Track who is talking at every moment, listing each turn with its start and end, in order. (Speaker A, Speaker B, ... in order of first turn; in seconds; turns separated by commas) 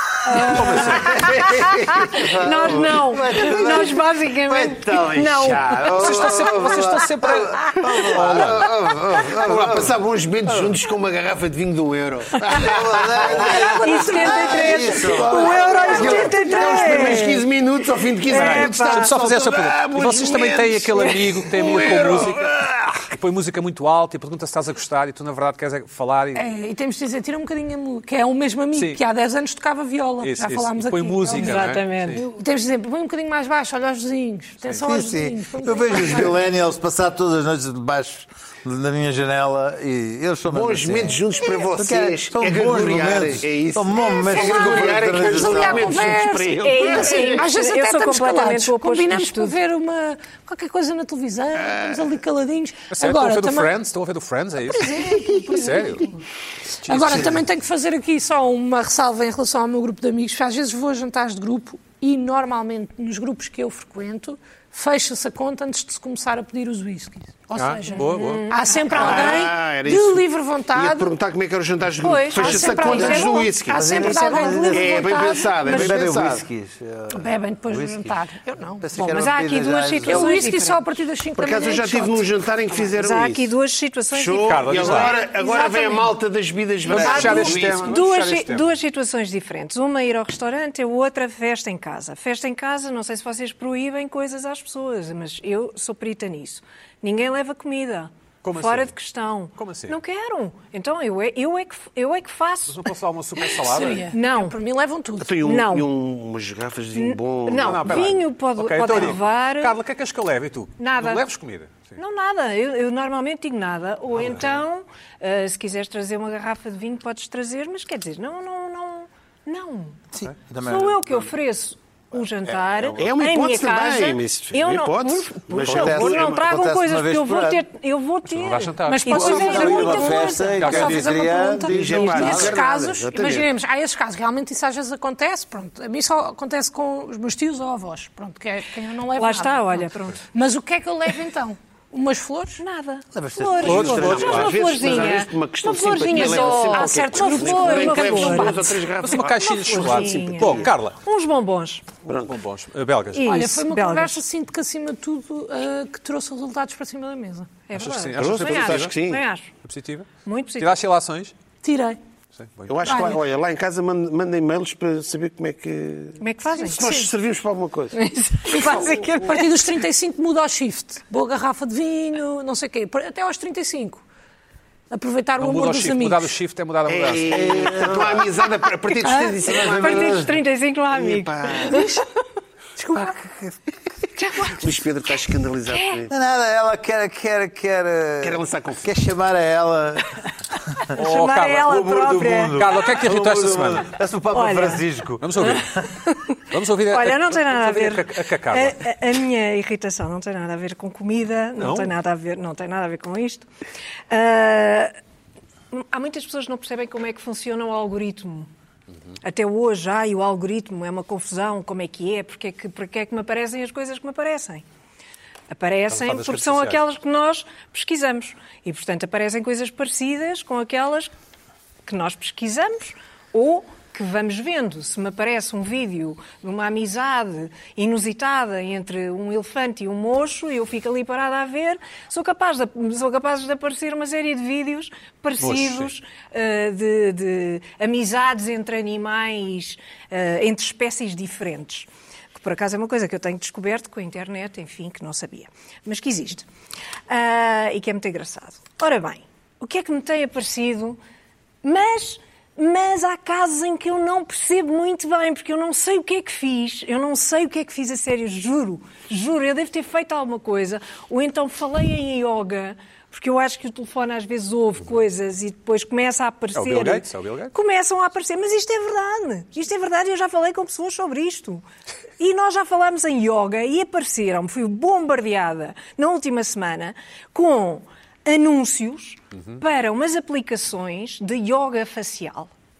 Speaker A: 0.2-6.0, Speaker B: 0.4-1.1, Speaker C: 1.1-1.5, Speaker D: 1.1-10.8, Speaker B: 5.9-8.7, Speaker C: 8.1-23.0, Speaker D: 12.4-17.2, Speaker A: 13.3-17.4, Speaker B: 18.3-26.4, Speaker A: 18.3-19.1, Speaker E: 26.3-36.4, Speaker B: 28.7-29.0, Speaker B: 30.2-32.2, Speaker A: 31.3-32.2, Speaker D: 34.8-46.0, Speaker C: 40.5-47.4, Speaker E: 44.2-53.7, Speaker A: 46.6-49.6, Speaker B: 52.9-56.1, Speaker E: 54.7-56.1, Speaker B: 56.8-57.4, Speaker E: 56.8-71.1, Speaker B: 67.5-68.5, Speaker A: 67.9-69.5, Speaker C: 68.9-70.2, Speaker C: 70.7-76.4, Speaker A: 72.0-74.7, Speaker E: 72.3-76.0, Speaker D: 73.7-78.2, Speaker E: 77.1-78.9, Speaker D: 78.8-80.5, Speaker A: 79.0-80.8, Speaker E: 80.0-82.3, Speaker C: 81.4-83.5, Speaker A: 82.8-86.1, Speaker C: 84.1-88.0, Speaker B: 84.4-85.2, Speaker B: 86.9-88.7, Speaker A: 86.9-102.8, Speaker B: 98.4-98.9, Speaker B: 99.5-100.0, Speaker B: 102.7-104.1, Speaker E: 103.6-105.4, Speaker A: 104.1-104.6, Speaker C: 105.2-108.2, Speaker A: 105.4-105.9, Speaker A: 106.9-109.8, Speaker B: 107.6-112.0, Speaker A: 110.8-111.2, Speaker A: 112.0-120.0, Speaker D: 120.1-121.3, Speaker A: 120.6-130.9, Speaker D: 122.7-123.0, Speaker C: 123.0-126.3, Speaker D: 125.6-127.6, Speaker B: 128.2-131.0, Speaker E: 128.9-142.6, Speaker D: 129.1-132.6, Speaker C: 131.6-133.5, Speaker A: 139.1-140.2, Speaker A: 142.6-148.7, Speaker D: 143.1-144.5, Speaker B: 143.6-144.5, Speaker C: 143.7-150.6, Speaker E: 146.0-148.8, Speaker B: 149.0-151.0, Speaker A: 149.3-151.8, Speaker C: 152.1-152.3, Speaker B: 152.2-153.3, Speaker A: 153.1-154.2, Speaker E: 153.3-157.5, Speaker A: 157.7-159.5, Speaker B: 157.7-159.1, Speaker C: 158.2-159.2, Speaker B: 159.6-161.3, Speaker A: 160.2-160.7, Speaker E: 161.6-162.0, Speaker B: 162.3-163.1, Speaker C: 162.7-168.0, Speaker E: 162.8-163.2, Speaker A: 166.2-167.0, Speaker E: 166.6-167.1, Speaker A: 167.9-169.8, Speaker E: 168.5-174.0, Speaker E: 174.9-176.3, Speaker B: 175.4-177.7, Speaker C: 176.9-180.4, Speaker D: 177.3-178.3, Speaker A: 179.0-182.0, Speaker D: 179.5-180.3, Speaker C: 180.9-181.9, Speaker A: 184.2-184.7, Speaker C: 184.5-186.1, Speaker A: 185.7-186.0, Speaker D: 186.1-190.9, Speaker C: 188.2-188.9, Speaker B: 190.9-191.7, Speaker A: 190.9-192.6, Speaker D: 191.4-195.9, Speaker B: 192.5-193.9, Speaker A: 194.3-194.8, Speaker B: 195.2-195.7, Speaker A: 195.6-203.5, Speaker B: 196.5-198.8, Speaker B: 201.6-201.9, Speaker A: 204.1-204.9, Speaker A: 205.7-208.5, Speaker A: 209.2-214.6, Speaker A: 215.5-221.1, Speaker B: 215.9-216.8, Speaker A: 221.8-246.4, Speaker B: 235.4-235.9, Speaker A: 247.1-251.0, Speaker A: 251.6-271.6, Speaker B: 266.5-267.5, Speaker A: 272.2-282.5